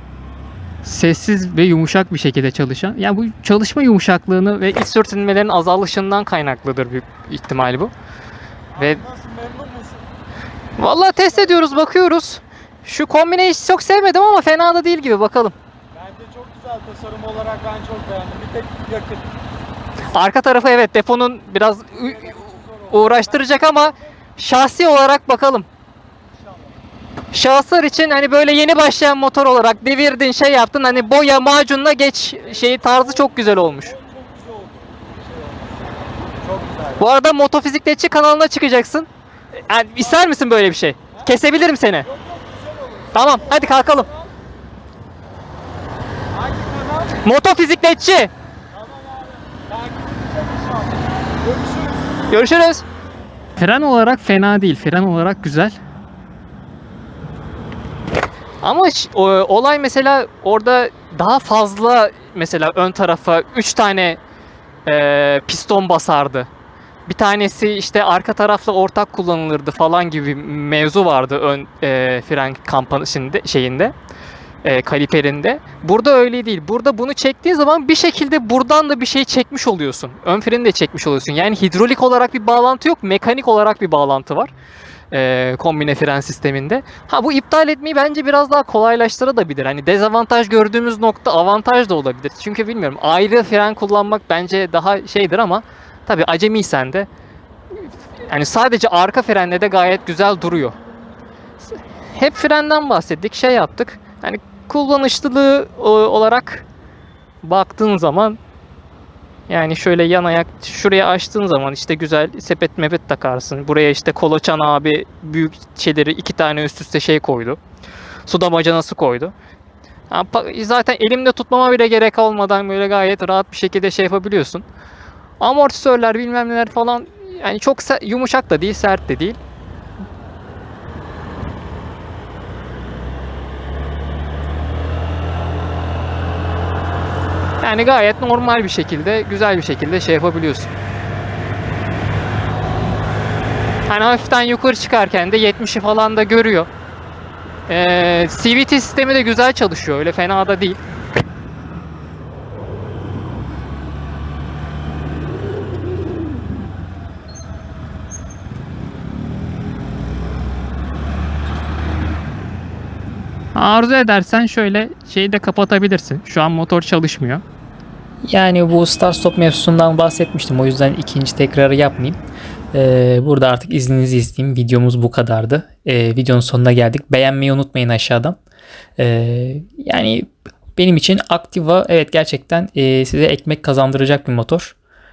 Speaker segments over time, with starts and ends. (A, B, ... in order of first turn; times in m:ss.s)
0:00.8-0:07.9 A
0:08.7-0:10.0 B
0:10.8-0:15.5 A
0:15.9-0:19.3 B
0:20.1-0:25.7 A
0:22.0-0:23.6 B
0:27.3-0:34.0 A
0:34.0-0:35.7 B
0:36.3-0:37.0 B
0:37.0-0:39.1 A
0:39.7-0:42.1 A
0:42.1-0:44.3 B
0:43.1-0:44.1 A
0:46.3-0:47.2 B
0:47.2-0:48.3 A
0:48.7-0:52.1 B
0:52.3-0:52.8 A
0:53.6-0:55.8 A
0:58.6-1:04.2 A
1:04.8-1:06.5 A
1:07.1-1:13.9 A
1:14.6-1:24.5 A
1:25.1-1:37.1 A
1:37.8-1:40.8 A
1:41.6-1:46.6 A
1:47.4-1:48.4 A
1:49.5-1:57.6 A
1:58.2-1:59.3 A
2:00.1-2:04.6 A
2:05.4-2:09.4 A
2:17.6-2:20.7 A
2:23.9-2:26.7 A
2:27.7-2:30.8 A
2:43.5-2:47.4 A
2:48.2-2:52.2 A
2:52.7-2:58.4 A
2:59.0-3:04.8 A